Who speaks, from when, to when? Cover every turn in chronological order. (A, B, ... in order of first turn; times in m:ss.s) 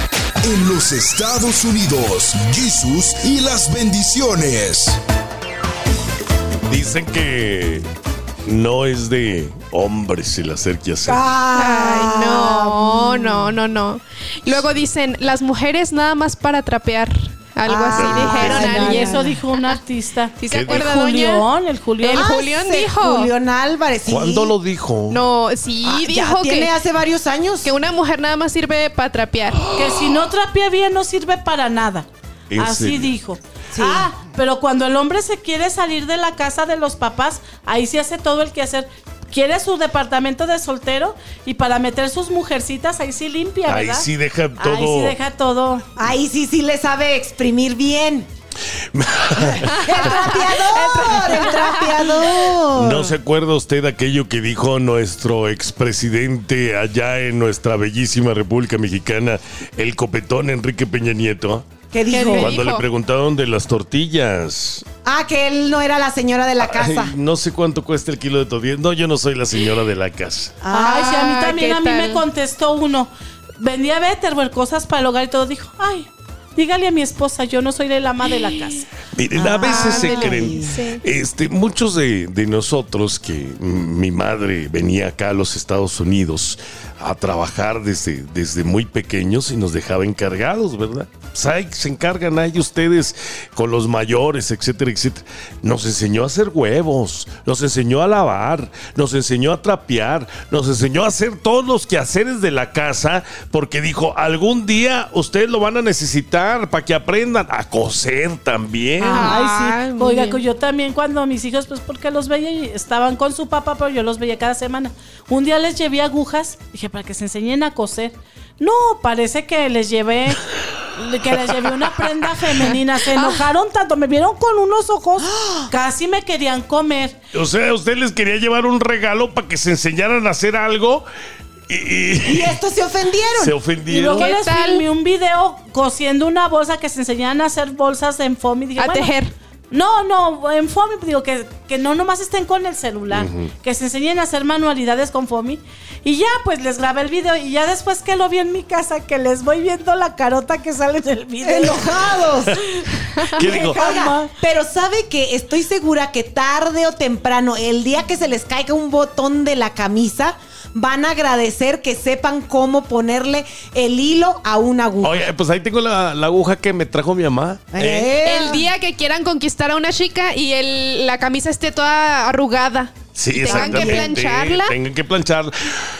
0:00.4-0:05.0 A
0:06.7-0:07.8 B
0:08.4-0:11.2 B
0:11.0-0:13.5 C
0:11.5-0:19.8 D
0:17.6-0:19.4 C
0:17.9-0:18.7 B
0:18.4-0:22.3 E
0:20.4-0:21.4 D
0:20.5-0:20.9 B
0:22.0-0:23.3 D
0:22.1-0:24.5 C
0:24.0-0:25.3 B
0:25.1-0:26.7 D
0:25.8-0:27.7 C
0:27.6-0:29.7 D
0:29.7-0:44.1 E
0:32.5-0:33.1 B
0:33.7-0:34.1 C
0:43.6-0:45.2 B
0:44.6-0:45.8 E
0:46.0-0:48.3 C
0:48.9-0:50.4 B
0:49.4-0:53.1 C
0:51.2-0:51.5 E
0:51.3-0:51.6 D
0:52.7-1:01.7 B
1:01.9-1:02.5 C
1:02.1-1:02.5 E
1:02.3-1:02.8 D
1:02.4-1:04.8 B
1:05.0-1:07.1 C
1:06.6-1:10.6 B
1:10.6-1:11.2 C
1:10.7-1:18.9 E
1:10.9-1:12.2 D
1:19.1-1:49.2 B
1:19.3-1:20.8 C
1:19.6-1:20.9 D
1:49.0-2:07.2 E
1:49.1-1:50.4 D
2:05.2-2:05.7 C
2:07.3-2:11.0 B
2:11.7-2:12.6 B
2:12.2-2:13.6 C
2:13.3-2:14.3 B
2:13.9-2:19.1 E
2:14.2-2:14.8 D
2:18.8-2:19.3 D
2:19.7-2:34.3 E
2:23.1-2:23.5 B
2:31.4-2:32.6 C
2:33.4-2:33.8 B
2:33.4-2:45.2 C
2:45.0-2:48.2 B
2:47.7-2:48.7 C
2:48.3-2:54.7 D
2:53.1-2:55.5 B
2:53.4-2:54.1 C